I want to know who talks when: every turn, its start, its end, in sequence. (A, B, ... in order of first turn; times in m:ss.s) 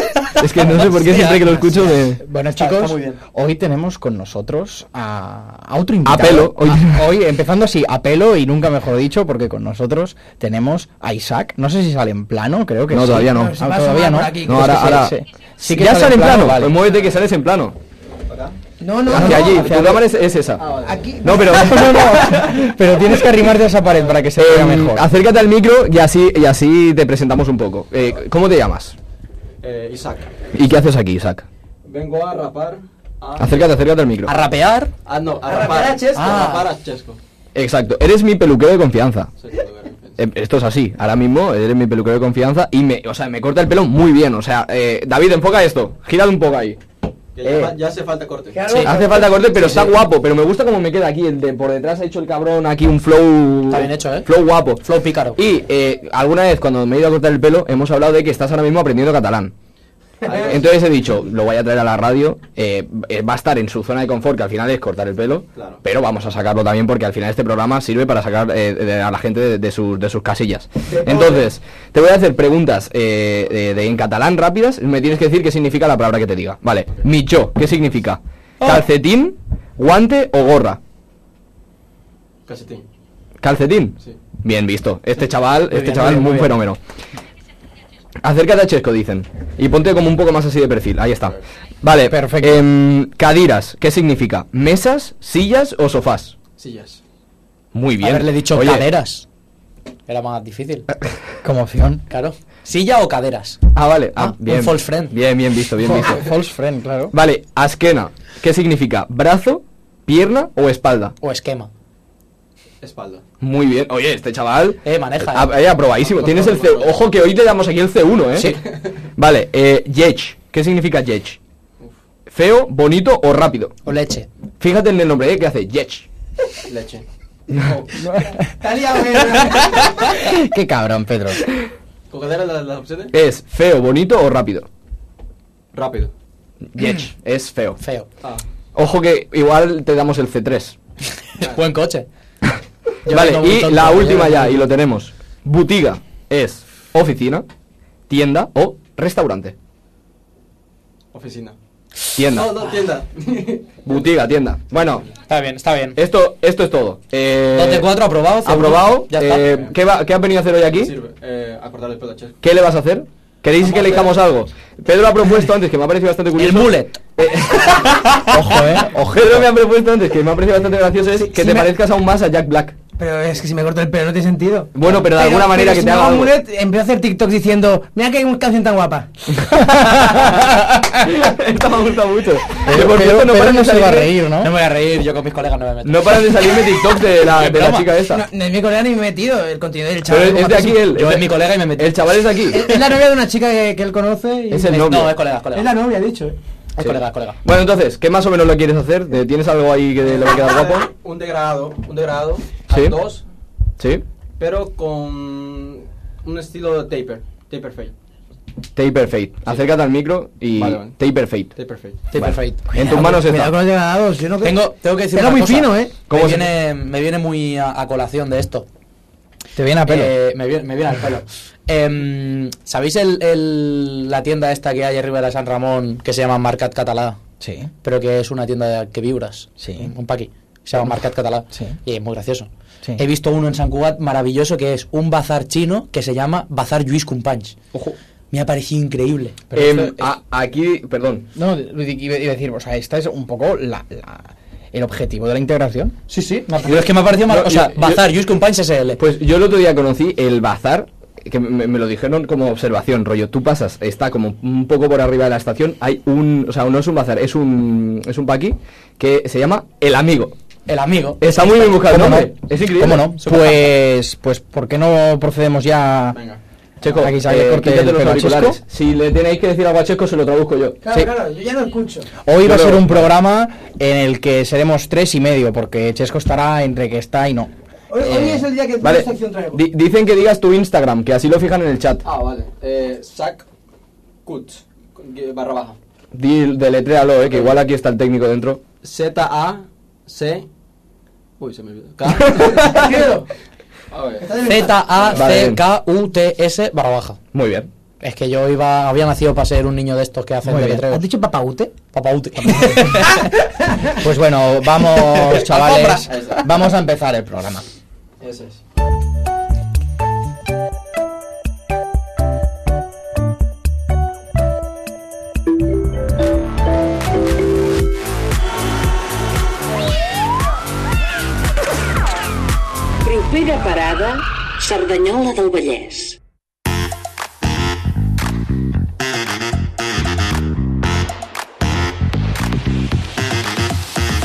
0:00.4-0:02.2 A
0:00.8-0:01.8 B
0:02.2-0:16.8 C
0:02.6-0:03.2 B
0:06.1-0:07.1 A
0:12.9-0:13.6 A
0:13.2-0:15.0 D
0:14.5-0:17.8 A
0:16.9-0:17.2 E
0:18.3-0:18.6 E
0:18.8-0:19.8 D
0:19.1-0:22.8 A
0:19.1-0:20.0 C
0:20.6-0:21.1 E
0:20.8-0:22.0 D
0:21.3-0:25.1 C
0:23.8-0:24.2 E
0:24.4-0:29.0 A
0:29.6-0:30.3 E
0:30.5-0:31.5 A
0:31.9-0:33.8 E
0:33.4-0:34.4 A
0:34.3-0:34.9 B
0:35.1-0:37.2 E
0:35.4-0:36.3 D
0:36.2-0:36.6 B
0:37.6-0:39.3 A
0:39.4-0:40.2 E
0:40.2-0:46.8 A
0:47.4-0:48.6 E
0:47.4-0:47.7 A
0:48.5-0:49.5 D
0:48.7-0:50.0 B
0:48.8-0:59.5 A
0:53.7-0:55.4 B
1:00.2-1:00.6 E
1:00.5-1:20.8 A
1:05.6-1:05.8 E
1:10.9-1:11.5 D
1:22.5-1:22.8 E
1:23.4-1:26.8 A
1:25.7-1:26.6 B
1:28.2-1:36.3 A
1:32.0-1:32.6 C
1:36.6-1:37.0 E
1:37.7-1:38.9 A
1:38.0-1:39.2 B
1:40.1-1:40.9 B
1:41.4-1:42.1 C
1:42.1-1:43.6 B
1:43.8-1:46.2 A
1:44.2-1:45.2 B
1:45.8-1:47.1 C
1:47.1-1:51.2 A
1:51.2-1:51.7 B
1:52.8-1:53.2 E
1:53.4-1:58.6 A
1:54.8-1:55.5 B
1:56.0-1:57.0 E
1:58.4-1:58.6 B
1:59.2-2:01.4 A
2:02.3-2:03.8 A
2:03.8-2:04.3 B
2:04.6-2:06.1 A
2:06.7-2:07.0 E
2:08.4-2:10.0 D
2:10.1-2:11.4 C
2:12.1-2:13.1 E
2:13.1-2:14.7 A
2:15.7-2:16.1 E
2:16.7-2:17.8 A
2:17.8-2:18.1 B
2:18.8-2:20.8 A
2:21.4-2:22.1 B
2:23.0-2:24.7 B
2:23.1-2:27.5 A
2:28.1-2:29.5 A
2:31.1-2:31.6 E
2:32.2-2:32.6 A
2:32.3-2:34.1 E
2:33.8-2:35.1 A
2:35.3-2:36.0 B
2:36.0-2:40.9 A
2:37.5-2:39.6 B
2:40.8-2:42.4 E
2:42.4-2:48.1 A
2:43.6-2:44.2 E
2:46.4-2:47.0 B
2:47.8-2:48.6 B
2:48.3-2:49.5 C
2:49.1-2:52.8 A
2:51.2-2:51.7 D
2:53.0-2:59.1 D
2:54.7-2:56.4 A
2:59.4-3:04.1 A
3:02.6-3:04.5 C
3:04.4-3:06.4 B
3:05.8-3:08.2 A
3:07.2-3:07.9 B
3:08.0-3:10.8 D
3:10.1-3:12.6 A
3:10.8-3:12.0 B
3:12.5-3:14.8 D
3:12.6-3:12.9 B
3:14.5-3:15.2 A
3:14.7-3:15.7 B
3:15.5-3:16.4 D
3:16.8-3:17.4 B
3:16.8-3:20.9 A
3:20.2-3:23.2 E
3:22.7-3:23.0 A
3:23.8-3:24.0 A
3:24.4-3:27.9 E
3:28.8-3:31.5 A
3:30.5-3:31.0 E
3:31.6-3:32.0 E
3:32.1-3:32.9 B
3:32.1-3:33.6 A
3:32.8-3:36.0 D
3:34.4-3:38.7 B
3:36.1-3:36.5 A
3:39.6-3:40.1 C
3:39.9-3:47.2 B
3:47.4-3:47.7 C
3:47.8-3:57.6 B
3:49.6-3:49.9 C
3:58.3-3:59.4 B
3:59.5-4:00.1 C
3:59.6-4:01.3 A
4:01.4-4:06.0 C
4:06.1-4:09.0 B
4:06.7-4:08.0 A
4:09.0-4:20.4 A
4:20.7-4:21.6 B
4:21.2-4:23.1 A
4:21.8-4:26.2 C
4:23.3-4:23.5 B
4:26.2-4:26.4 E
4:26.8-4:30.8 A
4:26.9-4:28.6 C
4:30.8-4:32.1 D
4:32.2-4:38.5 C
4:32.3-4:33.1 A
4:37.9-4:39.6 D
4:38.8-4:42.0 A
4:42.0-4:43.5 E
4:44.2-4:45.8 E
4:46.1-4:48.6 A
4:48.8-4:50.5 E
4:51.4-4:52.8 E
4:52.2-4:52.8 A
4:52.4-4:53.3 D
4:53.9-4:54.4 E
4:54.2-4:55.2 D
4:54.4-4:57.2 B
4:55.1-4:55.6 A
4:57.3-4:57.7 A
4:58.0-5:01.0 B
5:00.4-5:00.9 C
5:00.8-5:01.8 D
5:01.9-5:03.2 B
5:02.4-5:02.8 C
5:04.0-5:07.6 C
5:05.4-5:06.0 B
5:06.1-5:06.4 E
5:08.2-5:08.6 E
5:23.0-5:26.2 F